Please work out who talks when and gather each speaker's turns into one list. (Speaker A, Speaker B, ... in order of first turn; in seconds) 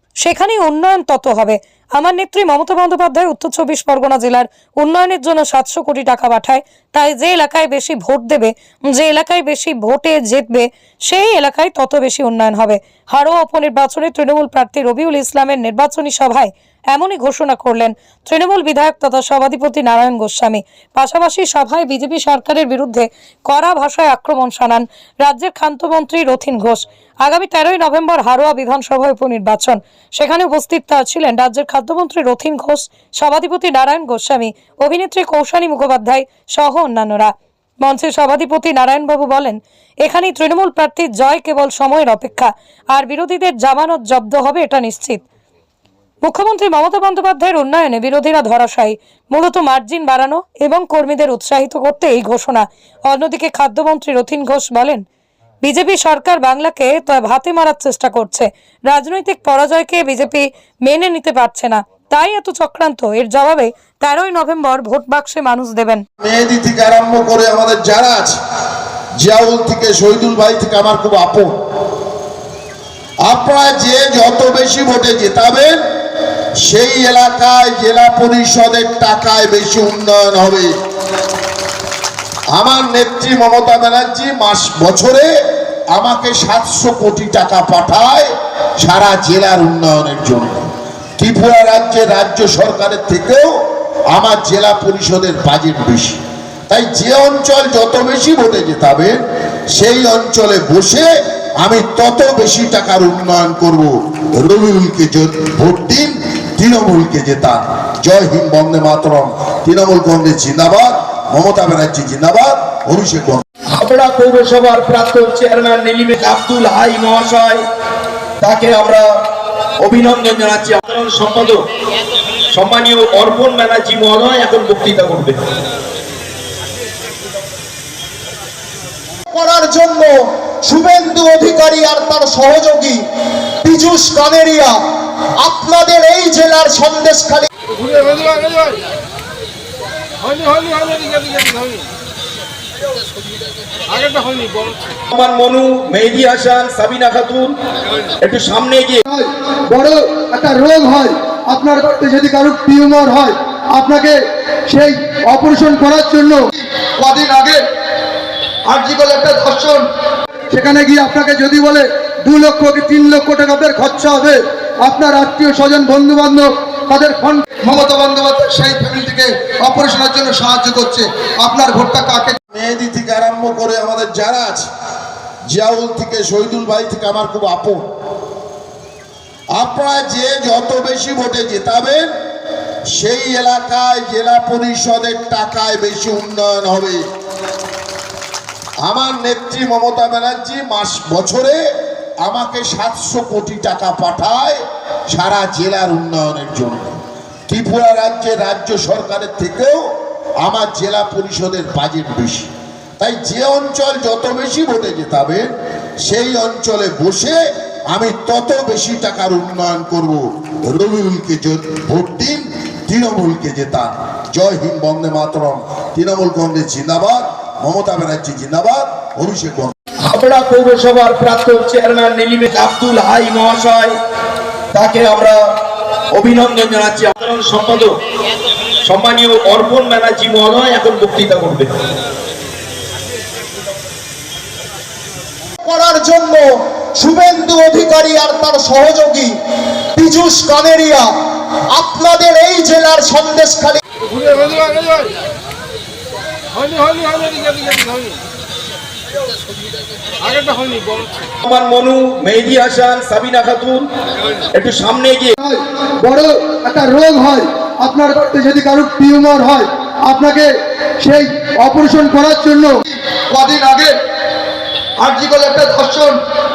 Speaker A: 0.2-45.2, 46.2-55.0, 55.6-66.0
Speaker B: 66.2-68.3, 69.2-71.5, 73.3-75.8, 76.6-80.7, 82.5-85.3, 85.9-88.3, 88.8-90.7, 91.2-93.6, 94.1-99.2, 99.8-113.4, 172.5-174.7, 175.5-177.8, 179.6-182.1, 182.9-187.0, 188.8-191.6, 192.2-194.6, 195.1-197.0, 197.5-199.9, 200.4-205.5, 206.1-219.7
Speaker C: 113.7-117.6, 118.4-119.1, 119.8-121.6, 122.5-125.4, 145.1-147.6, 148.2-149.1, 220.1-223.9, 224.7-225.4, 226.1-227.9, 228.8-231.7, 251.4-253.9, 254.5-255.3
Speaker D: 129.3-133.0, 133.6-134.8, 135.4-137.5, 235.6-239.4, 239.9-241.1, 241.7-243.8
Speaker E: 149.1-157.6, 158.7-159.8, 160.5-172.4, 255.4-263.9, 265.0-266.2